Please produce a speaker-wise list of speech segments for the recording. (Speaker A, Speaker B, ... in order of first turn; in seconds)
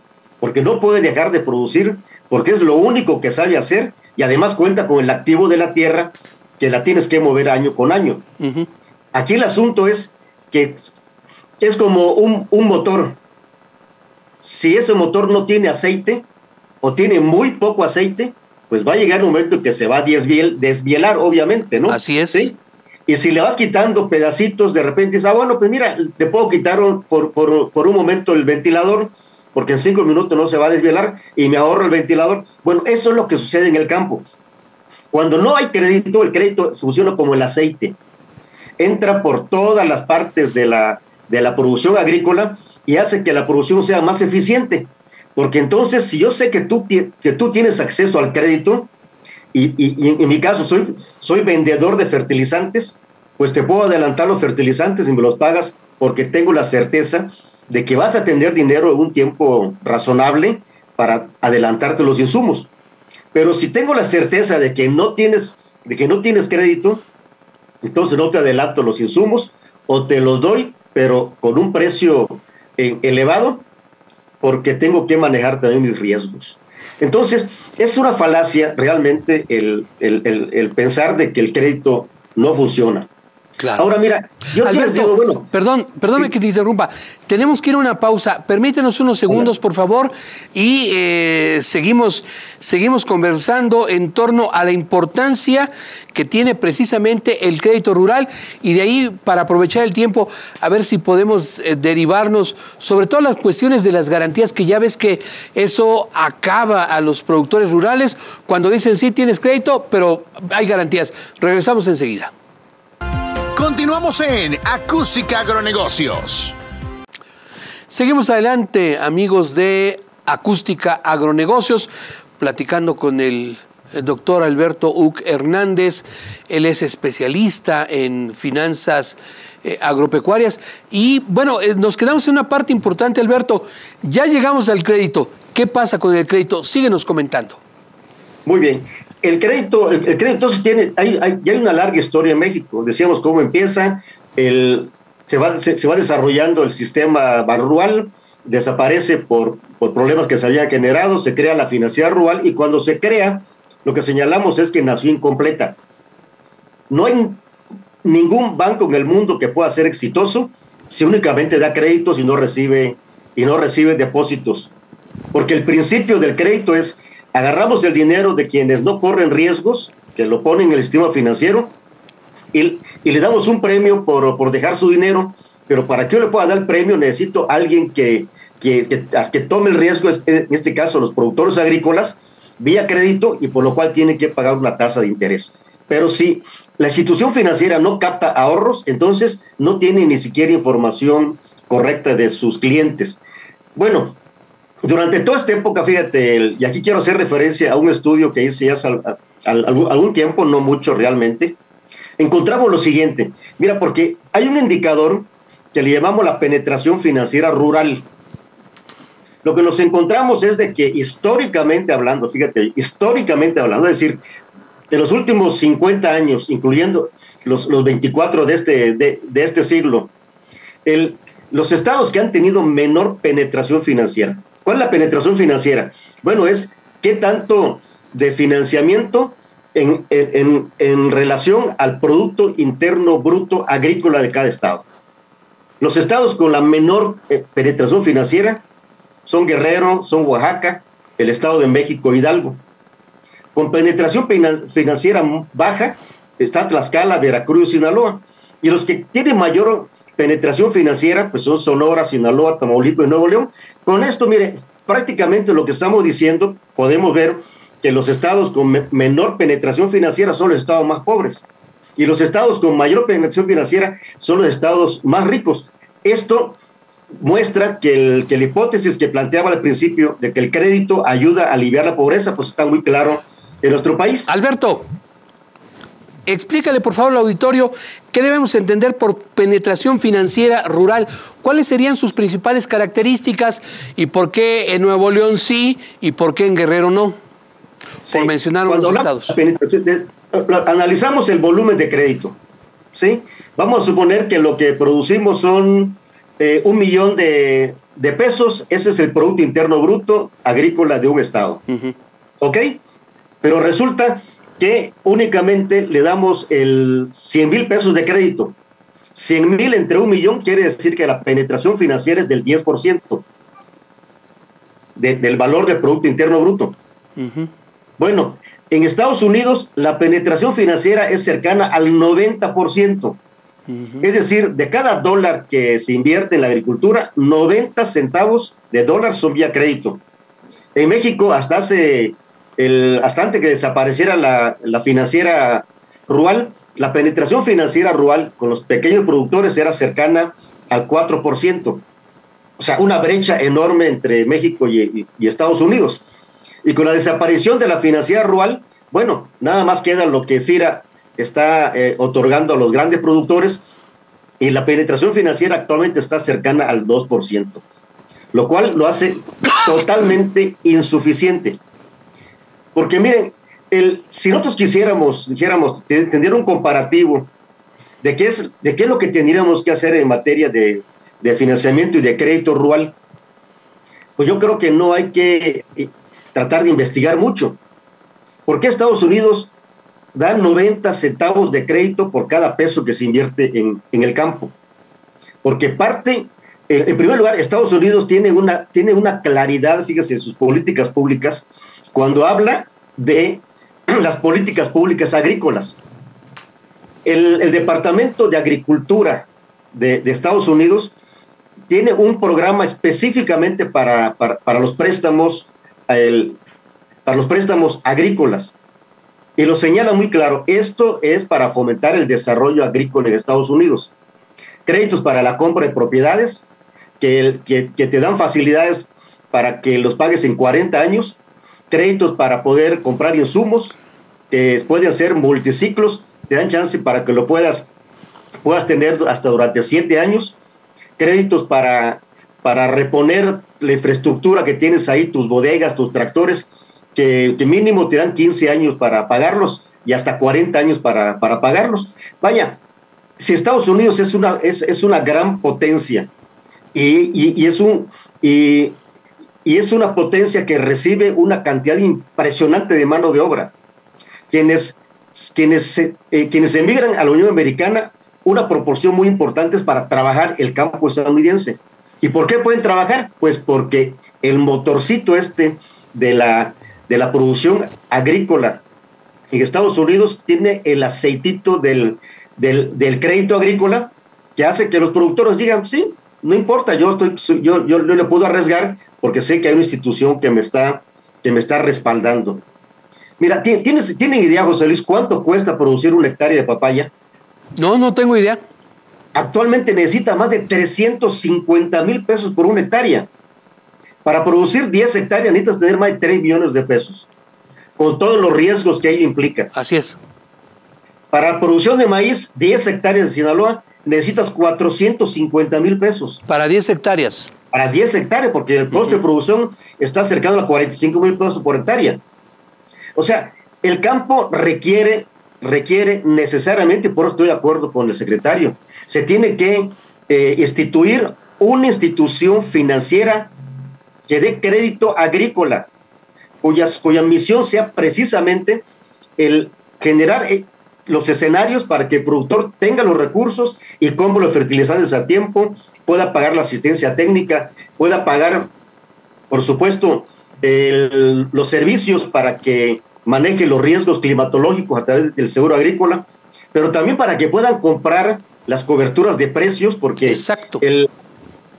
Speaker A: 0.4-8.2, 9.1-10.9, 11.6-13.2, 14.4-16.2, 16.8-34.3, 35.1-38.0, 38.8-48.9, 49.5-62.7, 63.3-67.0, 67.8-73.7, 74.4-83.1, 83.8-85.5, 138.4-155.8, 156.9-157.4, 158.0-164.7, 165.3-171.7, 172.5-193.2, 193.8-194.2, 194.8-201.6, 202.2-208.1, 209.4-214.2, 214.9-220.1, 220.8-234.8, 235.8-238.6, 239.2-242.6, 243.5-261.4, 262.0-266.6, 267.2-274.3, 288.1-292.4, 292.9-301.6, 302.4-302.8, 303.4-308.6, 309.1-313.2, 314.9-316.8, 318.0-323.2, 324.0-330.0, 330.7-341.8, 342.6-346.0, 346.6-353.6, 354.4-357.6, 358.3-361.6, 362.7-367.3, 368.0-372.9, 374.2-377.6, 378.4-379.5, 380.1-384.5, 385.4-395.8, 397.0-400.9, 401.7-406.4, 407.0-408.5, 409.4-413.9, 414.6-416.4, 417.0-421.2, 421.7-423.8, 424.3-427.7, 428.4-430.4, 431.0-442.6, 443.2-446.1, 446.7-448.8, 449.4-453.5, 454.3-468.6, 469.3-482.4, 483.2-486.9, 489.1-493.1, 494.0-497.1, 497.8-499.5, 501.1-506.2, 507.5-512.0, 513.0-523.3, 524.1-525.7, 526.4-528.6, 529.2-538.5, 539.3-550.9
Speaker B: 8.4-8.7, 21.9-22.5, 83.6-83.8, 84.6-112.3, 117.9-137.6, 274.3-274.9, 276.3-287.2, 288.1-289.4, 301.7-301.9, 317.2-317.5, 323.7-324.0, 487.6-488.4, 499.5-500.0, 506.3-507.3, 508.7-509.0, 550.0-550.6
Speaker C: 113.5-116.5